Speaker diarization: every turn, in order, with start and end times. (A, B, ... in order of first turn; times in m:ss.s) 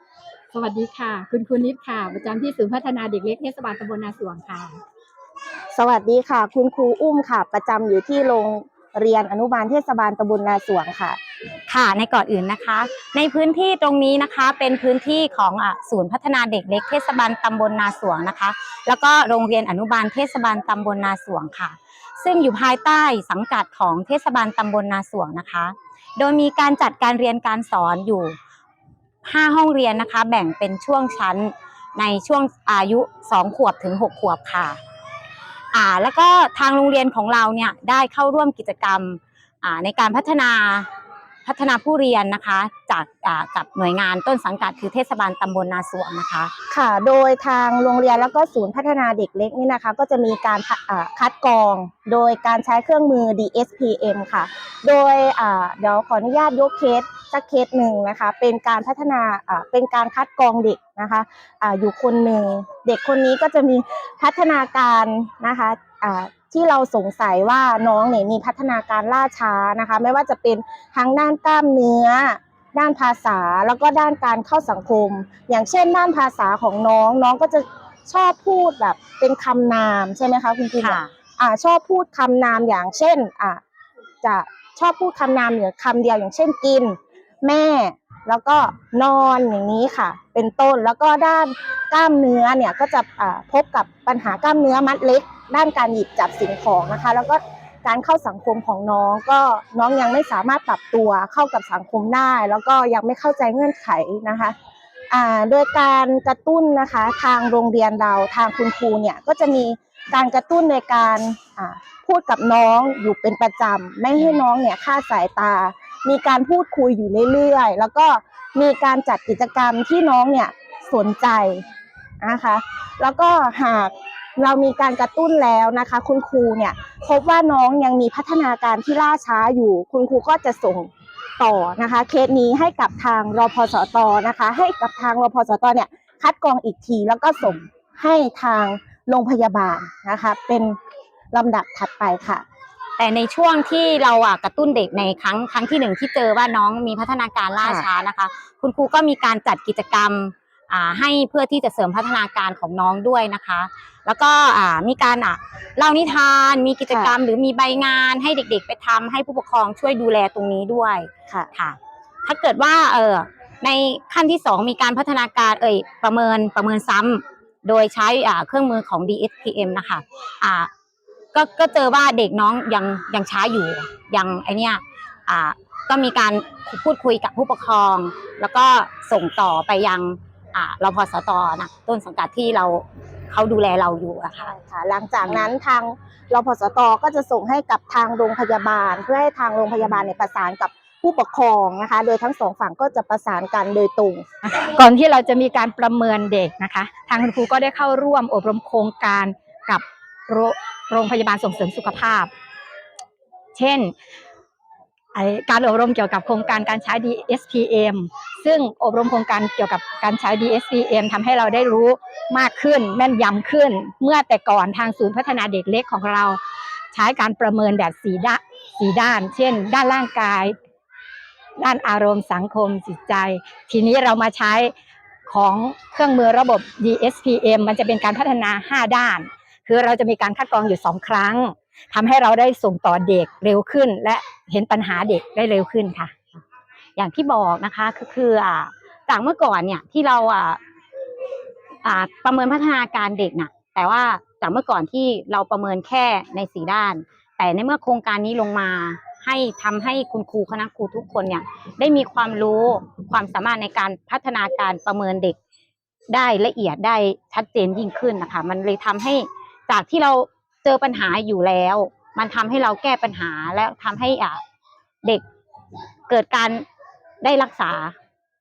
0:00.5-0:04.8 A
0:05.7-0:11.2 B
0:11.7-0:28.4 C
0:29.2-0:34.8 C
0:35.7-0:40.9 C
0:41.4-0:46.5 C
0:46.7-1:23.6 B
1:20.8-1:21.1 C
1:24.2-1:44.6 B
1:45.1-2:01.6 B
2:02.2-2:20.8 B
2:21.3-2:22.4 B
2:23.0-2:50.7 C
2:27.6-2:27.9 B
2:36.9-2:37.2 B
2:51.3-3:04.5 C
3:04.5-3:14.2 B
3:14.5-3:22.3 A
3:23.6-3:23.9 A
3:25.2-3:36.4 A
3:36.9-3:40.6 A
3:41.6-3:44.7 A
3:45.3-3:56.1 A
3:57.0-4:00.6 C
4:01.8-4:15.4 C
4:16.1-4:24.4 C
4:26.1-4:26.6 C
4:27.2-4:27.9 C